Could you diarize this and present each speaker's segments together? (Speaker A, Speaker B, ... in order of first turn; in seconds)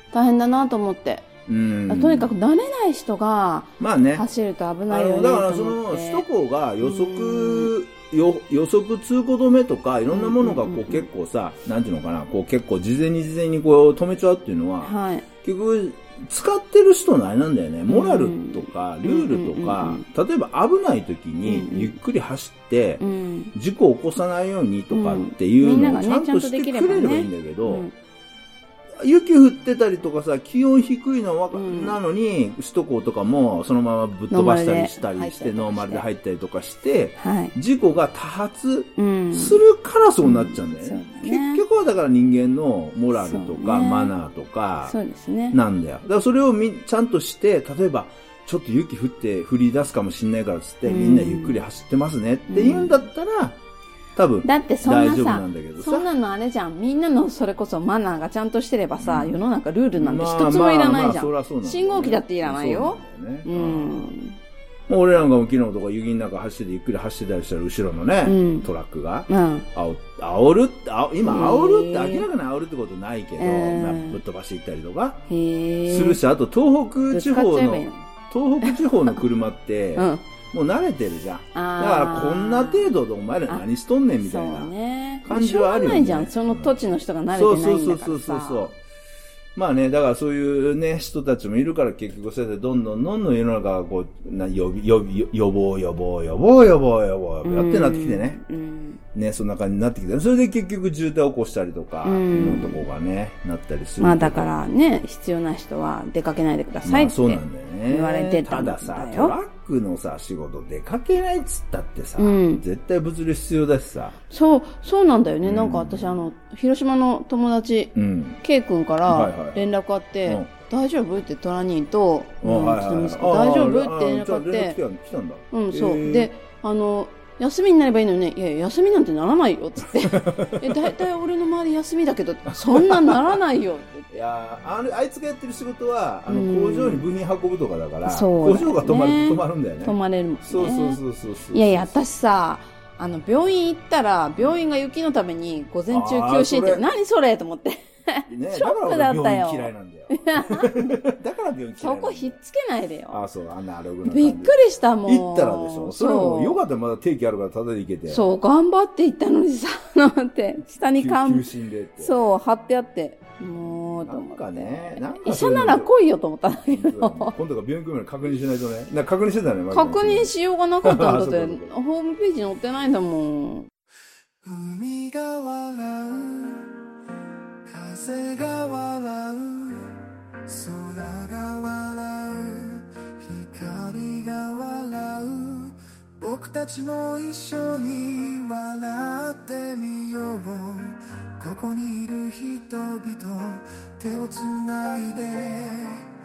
Speaker A: 0.1-1.3, 1.9-6.2, 6.8-7.7, 10.1-11.1, 14.8-15.2, 17.9-20.1, 21.4-21.9, 23.0-23.5, 24.9-27.9, 31.5-32.0, 34.3-36.0, 37.2-37.5, 39.0-39.6, 40.2-41.6, 43.1-44.1, 44.9-45.6, 50.8-51.6, 52.5-53.0, 54.4-64.4, 68.2-68.7, 69.3-69.7, 71.2-72.3, 73.4-74.2, 75.3-76.2, 77.1-78.0, 80.0-80.2, 81.5-83.0, 84.2-88.7, 97.4-99.0, 102.0-102.8, 104.0-109.3, 112.2-112.6, 114.3-124.8, 125.5-134.2, 136.3-137.1, 138.0-141.0, 141.5-151.0, 151.8-153.2, 154.0-156.6, 158.1-161.5, 162.0-167.3, 169.7-173.7
Speaker B: 1.4-2.3, 3.8-4.2, 4.9-27.9, 29.0-45.0, 45.5-53.6, 54.1-56.1, 59.0-59.4, 60.0-64.1, 64.9-75.2, 75.9-84.7, 85.2-88.8, 89.5-98.4, 99.1-104.5, 106.8-114.1, 115.4-116.1, 117.9-118.4, 119.0-119.6, 122.4-126.3, 130.0-130.9, 132.5-133.4, 134.1-142.0, 145.9-146.8, 148.3-152.4, 153.1-158.2, 160.9-162.2, 163.6-165.9, 166.7-171.7
Speaker C: 174.4-176.7, 177.7-179.9, 180.5-196.1